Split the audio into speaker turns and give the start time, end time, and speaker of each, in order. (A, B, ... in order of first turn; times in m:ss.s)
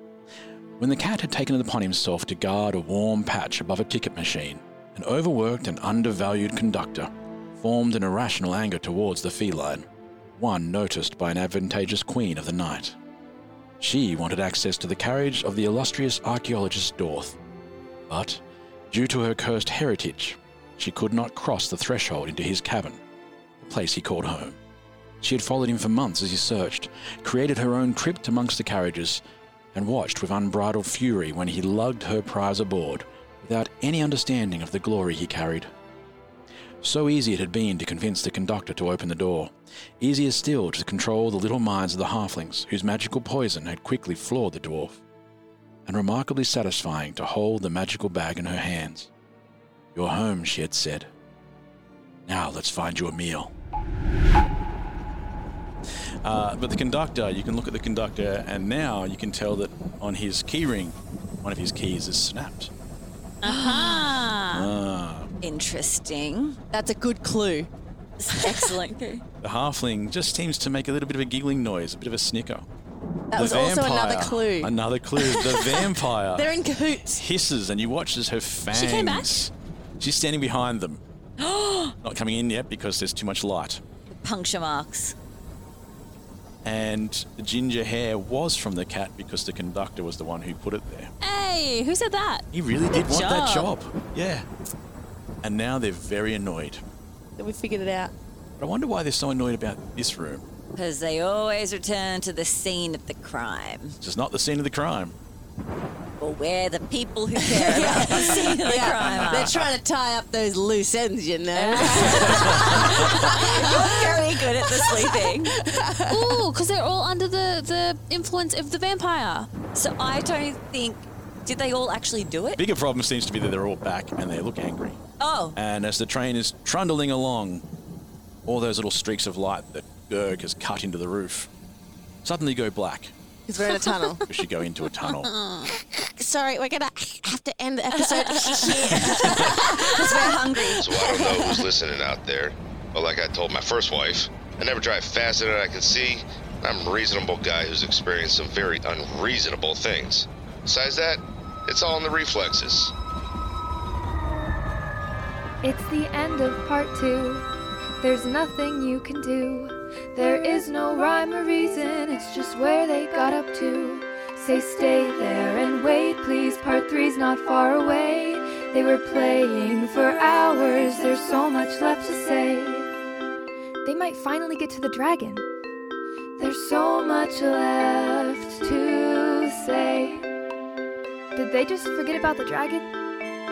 0:00.8-0:09.9 A
0:10.4-0:13.0 A
0:13.8-0:17.4 A
0:18.1-0:23.0 A
0:23.6-0:24.6 A
0:25.2-0:29.2 A
0:29.7-0:35.7 A
0:36.8-0:45.0 A
0:45.9-0:49.1 A
0:50.0-0:51.1 A
0:52.3-0:53.5 A
0:56.2-1:02.7 A
1:03.4-1:04.2 B
1:03.4-1:04.7 C
1:04.5-1:05.3 A
1:05.4-1:06.6 B
1:06.7-1:07.7 D
1:08.2-1:09.2 B
1:09.4-1:12.7 A
1:13.3-1:17.2 D
1:13.3-1:16.5 A
1:17.1-1:21.0 A
1:18.7-1:19.4 C
1:21.4-1:22.0 B
1:22.0-1:23.8 A
1:24.1-1:25.2 B
1:26.6-1:31.1 A
1:31.2-1:32.4 C
1:32.5-1:34.5 A
1:32.9-1:33.7 B
1:35.4-1:36.8 A
1:37.4-1:38.1 D
1:38.6-1:40.5 A
1:40.8-1:44.0 B
1:44.0-1:45.2 A
1:46.2-1:49.5 B
1:47.4-1:56.4 D
1:47.9-1:49.7 A
1:51.6-1:55.5 B
1:52.3-1:53.2 A
1:56.1-1:59.5 C
1:59.7-2:02.6 B
2:02.6-2:05.0 A
2:05.2-2:05.6 B
2:05.6-2:07.6 A
2:08.5-2:11.5 A
2:12.2-2:13.1 A
2:13.5-2:14.2 D
2:14.3-2:15.3 A
2:15.2-2:15.7 C
2:15.7-2:21.4 D
2:17.9-2:21.2 B
2:20.8-2:32.9 E
2:35.6-2:37.5 F
2:38.0-2:52.9 F
2:53.8-2:55.4 F
2:56.4-3:00.3 F
3:01.4-3:02.9 F